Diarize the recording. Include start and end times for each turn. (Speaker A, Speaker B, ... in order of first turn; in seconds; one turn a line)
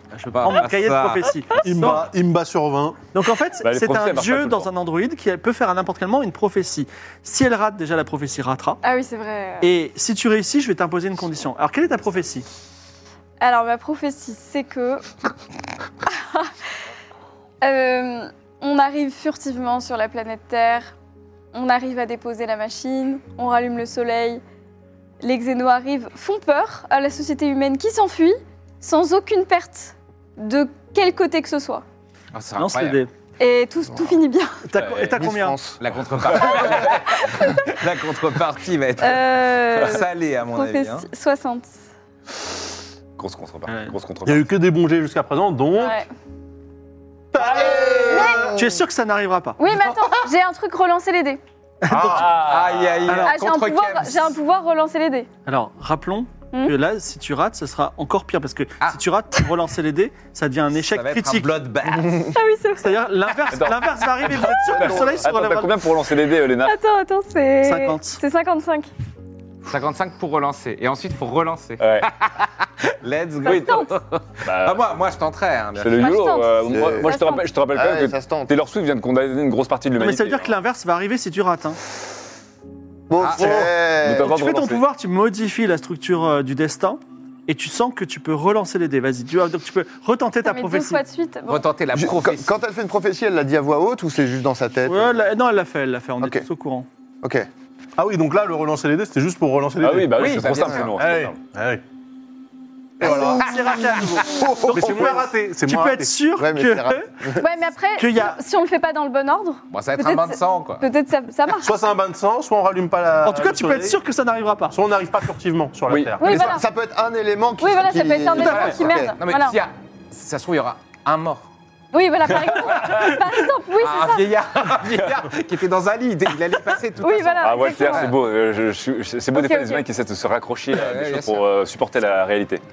Speaker A: 0.1-2.1
Speaker B: 0.3-1.9
Speaker C: 1.6-3.0
Speaker A: 3.1-8.8
Speaker D: 3.6-4.7
Speaker E: 8.8-9.7
Speaker A: 9.6-12.4
Speaker E: 13.4-15.1
Speaker E: 16.1-16.5
Speaker E: 17.6-20.9
Speaker E: 21.5-24.4
Speaker E: 25.2-31.8
Speaker B: 32.3-33.0
Speaker A: 32.6-33.1
Speaker E: 33.4-34.7
Speaker F: 33.9-34.2
Speaker A: 34.7-35.6
Speaker D: 34.8-35.1
Speaker F: 35.1-35.8
Speaker B: 35.8-41.1
Speaker E: 39.0-41.7
Speaker D: 43.2-44.5
Speaker A: 43.7-44.0
Speaker C: 44.2-46.0
Speaker E: 45.7-46.1
Speaker F: 47.3-48.7
Speaker B: 47.4-48.1
Speaker E: 48.0-48.5
Speaker A: 48.1-49.6
Speaker E: 49.6-51.4
Speaker B: 49.7-50.2
Speaker A: 51.8-52.3
Speaker D: 52.0-53.1
Speaker B: 52.1-54.4
Speaker A: 53.0-53.4
Speaker E: 53.1-55.3
Speaker A: 55.5-61.5
Speaker B: 60.7-62.3
Speaker F: 61.9-62.3
Speaker E: 62.3-63.0
Speaker A: 62.8-65.7
Speaker D: 63.5-66.8
Speaker F: 64.7-65.2
Speaker E: 66.5-68.9
Speaker A: 67.6-68.2
Speaker B: 69.7-76.0
Speaker D: 71.8-72.1
Speaker E: 73.4-73.9
Speaker D: 73.5-73.8
Speaker D: 74.4-75.0
Speaker D: 75.8-80.5
Speaker E: 76.0-77.5
Speaker F: 76.7-77.2
Speaker F: 77.7-78.6
Speaker A: 80.0-81.8
Speaker F: 83.1-84.4
Speaker B: 83.2-83.7
Speaker A: 83.4-91.0
Speaker D: 83.5-84.8
Speaker E: 90.4-91.7
Speaker B: 91.5-92.6
Speaker F: 91.9-95.1
Speaker A: 94.9-96.9
Speaker F: 96.2-96.5
Speaker F: 97.2-97.5
Speaker C: 98.0-101.8
Speaker D: 99.8-101.4
Speaker B: 100.1-101.0
Speaker F: 103.0-105.2
Speaker A: 103.0-107.1
Speaker C: 103.0-103.5
Speaker C: 104.6-106.1
Speaker F: 106.4-107.4
Speaker E: 107.4-111.8
Speaker A: 108.0-108.3
Speaker B: 109.7-110.9
Speaker C: 111.6-114.0
Speaker A: 113.2-114.8
Speaker C: 114.7-116.3
Speaker D: 115.9-116.1
Speaker E: 116.2-116.6
Speaker F: 116.2-119.2
Speaker E: 117.6-119.6
Speaker B: 118.3-121.5
Speaker A: 118.3-118.8
Speaker E: 121.9-124.4
Speaker B: 122.3-122.9
Speaker B: 123.8-128.1
Speaker E: 127.0-128.1
Speaker D: 127.4-132.6
Speaker E: 129.3-129.8
Speaker B: 130.7-131.4